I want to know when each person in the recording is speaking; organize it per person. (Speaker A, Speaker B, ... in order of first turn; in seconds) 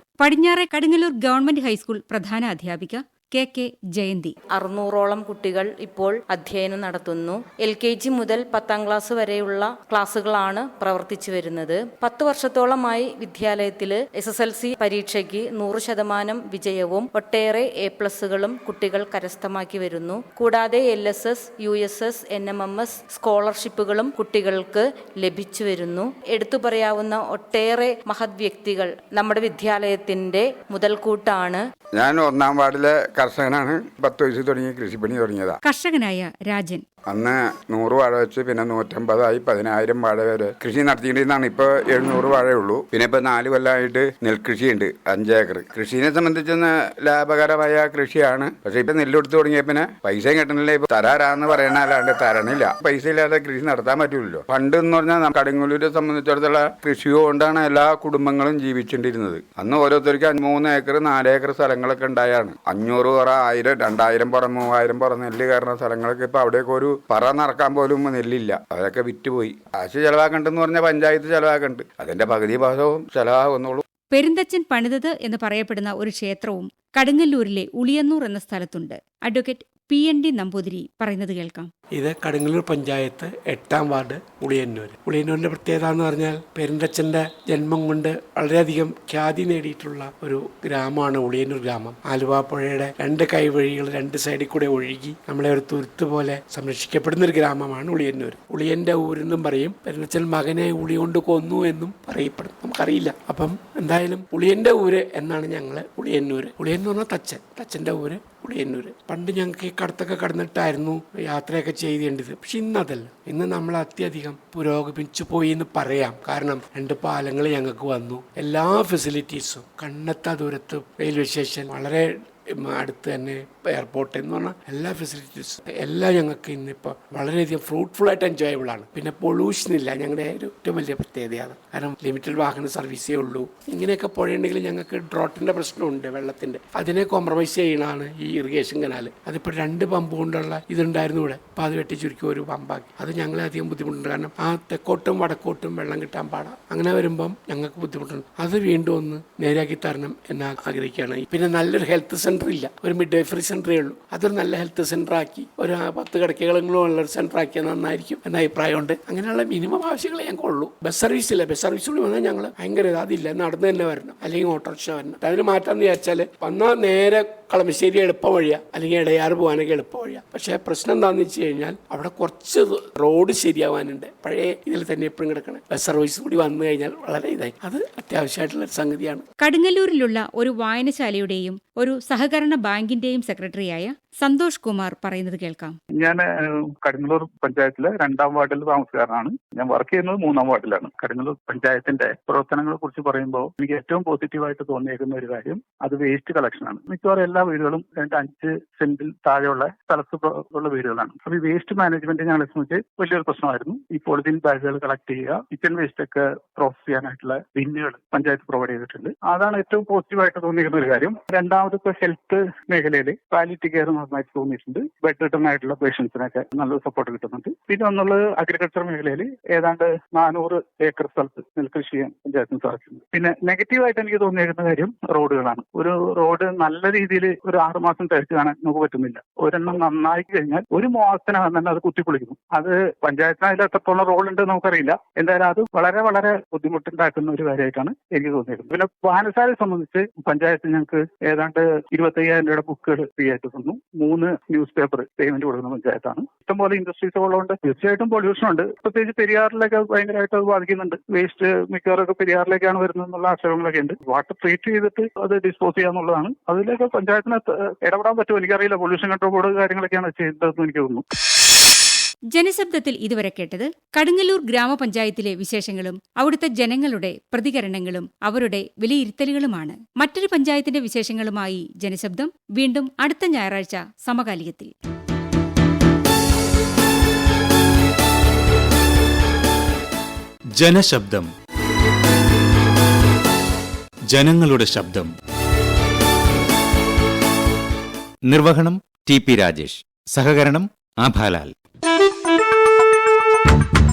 Speaker A: 0.2-4.3, 35.6-36.8, 74.1-81.7, 179.4-185.8, 262.3-274.7
Speaker B: 4.5-31.6
Speaker C: 31.9-35.6, 37.1-73.8
Speaker D: 82.0-122.1, 122.6-179.2
Speaker E: 185.9-186.2, 186.8-261.0
Speaker F: 280.6-281.3, 284.1-285.1, 288.2-291.5